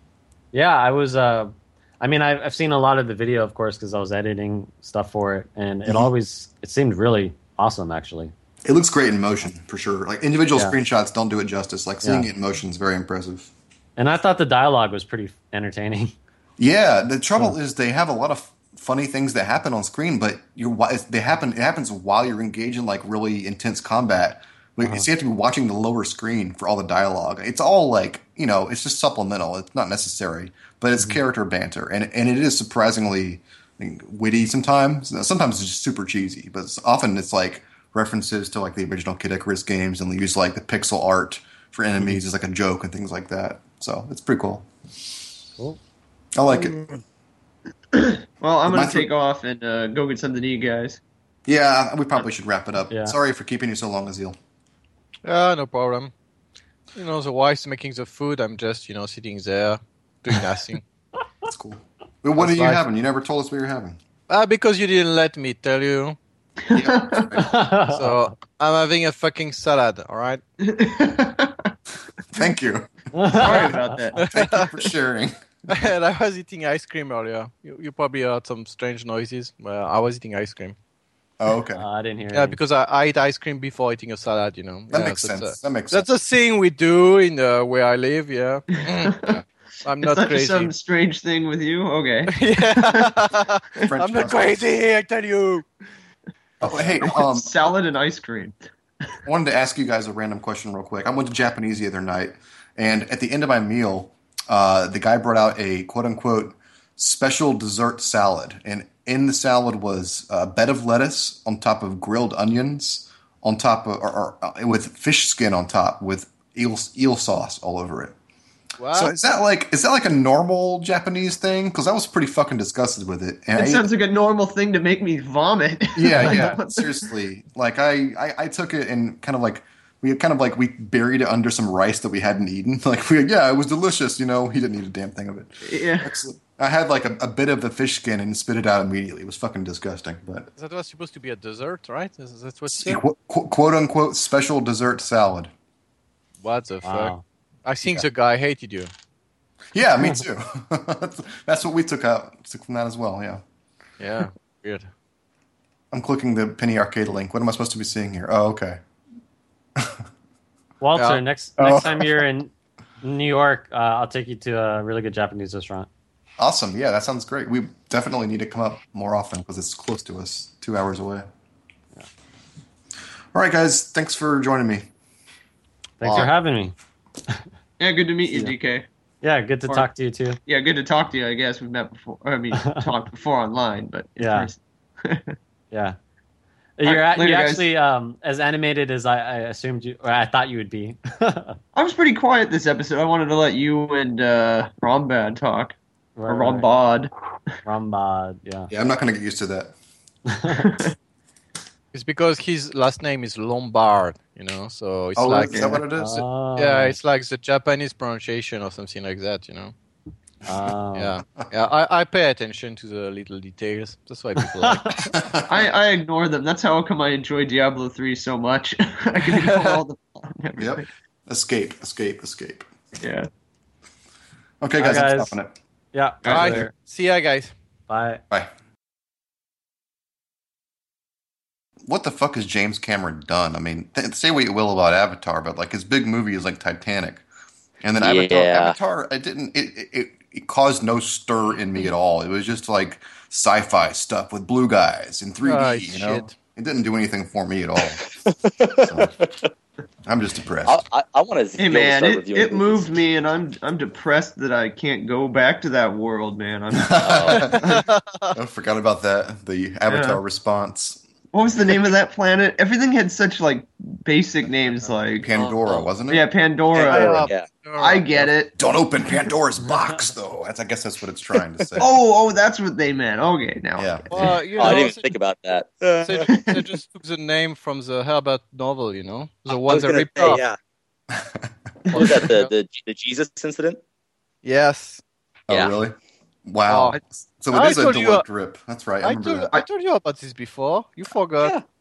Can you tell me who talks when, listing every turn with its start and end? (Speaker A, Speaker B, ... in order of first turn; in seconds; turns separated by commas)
Speaker A: 0.5-8.3, Speaker B: 8.7-13.5, Speaker A: 14.0-16.1, Speaker B: 16.6-44.7, Speaker B: 46.4-46.9, Speaker C: 47.9-51.0, Speaker B: 48.6-49.1, Speaker B: 51.5-54.4, Speaker A: 52.9-53.1, Speaker D: 55.2-56.1, Speaker D: 56.9-60.8, Speaker B: 61.5-64.0, Speaker D: 62.4-62.8, Speaker D: 64.3-66.2, Speaker C: 66.7-67.4, Speaker B: 66.7-67.5, Speaker A: 67.3-68.2, Speaker D: 67.9-70.4, Speaker C: 70.6-71.7, Speaker B: 72.3-75.8, Speaker A: 73.1-74.0, Speaker C: 73.3-74.2, Speaker D: 74.2-74.7, Speaker D: 75.7-80.8, Speaker B: 81.4-81.8, Speaker A: 81.7-82.6, Speaker D: 82.3-89.1, Speaker B: 84.9-86.0, Speaker C: 88.7-89.4, Speaker D: 89.8-90.7, Speaker C: 90.0-93.2, Speaker D: 92.4-95.7, Speaker B: 93.8-94.7, Speaker B: 96.6-97.5, Speaker C: 96.6-98.5, Speaker B: 99.2-118.1, Speaker D: 118.8-119.1, Speaker B: 118.9-123.8, Speaker C: 123.5-127.0, Speaker B: 126.0-140.5, Speaker D: 126.2-126.5, Speaker C: 135.6-136.2, Speaker D: 140.6-143.0, Speaker B: 142.7-145.5, Speaker D: 146.4-147.1, Speaker A: 146.8-147.2, Speaker D: 147.6-148.9, Speaker B: 149.7-153.4, Speaker D: 154.0-154.9, Speaker B: 155.9-158.8, Speaker B: 159.8-160.0, Speaker A: 160.8-165.9, Speaker D: 160.9-161.2, Speaker B: 161.6-162.2, Speaker B: 166.4-171.3, Speaker B: 173.3-174.9, Speaker A: 176.0-176.7, Speaker B: 176.0-176.3, Speaker C: 177.8-178.8, Speaker A: 179.2-180.4, Speaker C: 180.5-185.3, Speaker A: 182.6-182.8, Speaker A: 184.2-184.5, Speaker A: 186.8-191.6, Speaker C: 186.8-187.6, Speaker C: 191.7-195.8, Speaker A: 196.2-196.8, Speaker C: 196.3-197.1, Speaker A: 197.6-198.7, Speaker B: 198.7-199.7, Speaker A: 200.3-200.7, Speaker C: 200.5-200.9, Speaker D: 201.9-205.8, Speaker B: 205.2-206.2, Speaker C: 205.4-205.8, Speaker A: 205.9-207.0, Speaker D: 206.6-209.7, Speaker A: 210.5-211.2, Speaker D: 210.9-215.0, Speaker A: 214.6-215.1, Speaker B: 215.1-215.6, Speaker C: 215.4-220.9, Speaker D: 219.3-219.8, Speaker B: 220.6-222.7, Speaker C: 223.0-223.3, Speaker B: 224.6-225.5, Speaker A: 224.8-225.3, Speaker A: 225.9-226.7, Speaker C: 226.2-226.6, Speaker B: 226.3-226.6, Speaker D: 226.3-227.5, Speaker A: 227.9-228.2, Speaker B: 231.8-237.2, Speaker B: 237.8-248.1, Speaker E: 238.0-238.8, Speaker D: 245.4-246.3, Speaker E: 248.1-249.5, Speaker B: 248.8-249.1, Speaker B: 250.1-250.8, Speaker E: 250.6-252.9, Speaker C: 251.6-257.8, Speaker B: 256.8-257.8, Speaker E: 256.9-257.6, Speaker D: 257.4-258.3, Speaker B: 258.3-261.0, Speaker C: 259.9-260.2, Speaker C: 261.3-265.3, Speaker B: 265.2-266.2, Speaker E: 265.3-265.9, Speaker C: 266.1-268.5, Speaker E: 266.7-267.5, Speaker D: 266.8-268.3, Speaker B: 268.6-271.9, Speaker E: 271.4-271.8, Speaker C: 271.8-274.8, Speaker B: 273.8-274.1, Speaker D: 274.1-275.1, Speaker E: 274.6-276.3, Speaker D: 276.0-280.4, Speaker C: 276.3-276.6, Speaker E: 279.5-280.6, Speaker B: 281.1-281.5, Speaker D: 281.9-282.5, Speaker E: 281.9-283.8, Speaker D: 284.4-285.0, Speaker B: 285.5-289.5, Speaker E: 285.5-285.7, Speaker D: 286.7-287.0, Speaker D: 287.5-288.2, Speaker D: 289.0-291.5